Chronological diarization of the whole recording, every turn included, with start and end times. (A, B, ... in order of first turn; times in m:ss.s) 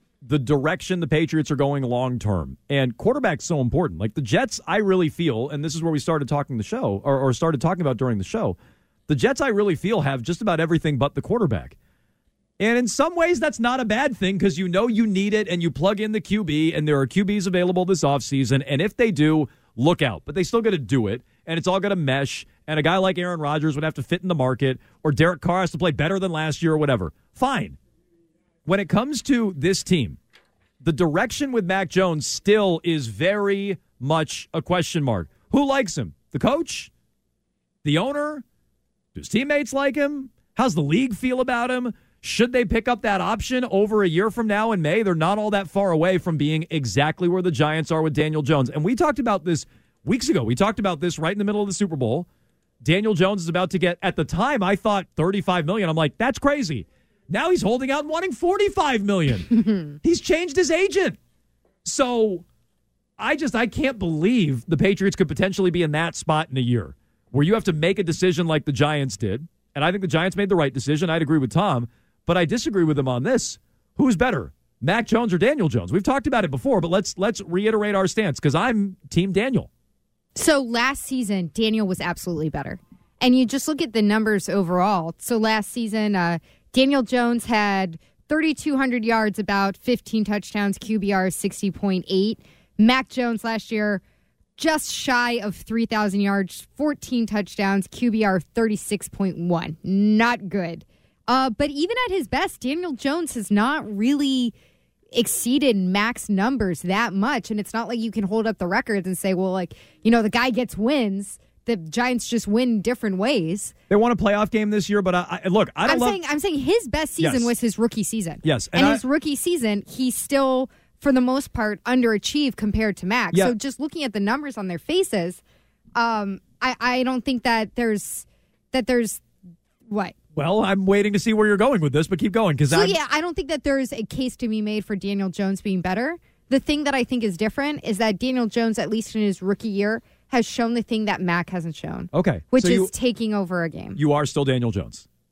0:00.2-0:08.6 A
0:09.1-0:11.8 A
0:12.6-0:27.8 A
0:28.7-0:30.2 A
0:30.8-0:36.9 A
0:37.8-0:38.4 A
0:39.2-0:52.3 A
0:52.8-1:01.2 A
0:59.5-1:00.0 B
1:01.8-1:02.4 A
1:03.2-1:19.7 A
1:20.4-1:34.0 B
1:34.6-1:44.5 B
1:45.1-1:53.7 B
1:53.9-1:56.2 A
1:55.8-2:05.4 B
1:57.2-1:57.5 A
1:58.4-1:59.0 A
2:06.0-2:09.2 B
2:09.9-2:10.2 B
2:10.4-2:13.0 A
2:12.7-2:24.0 B
2:22.1-2:22.9 A
2:24.0-2:25.0 A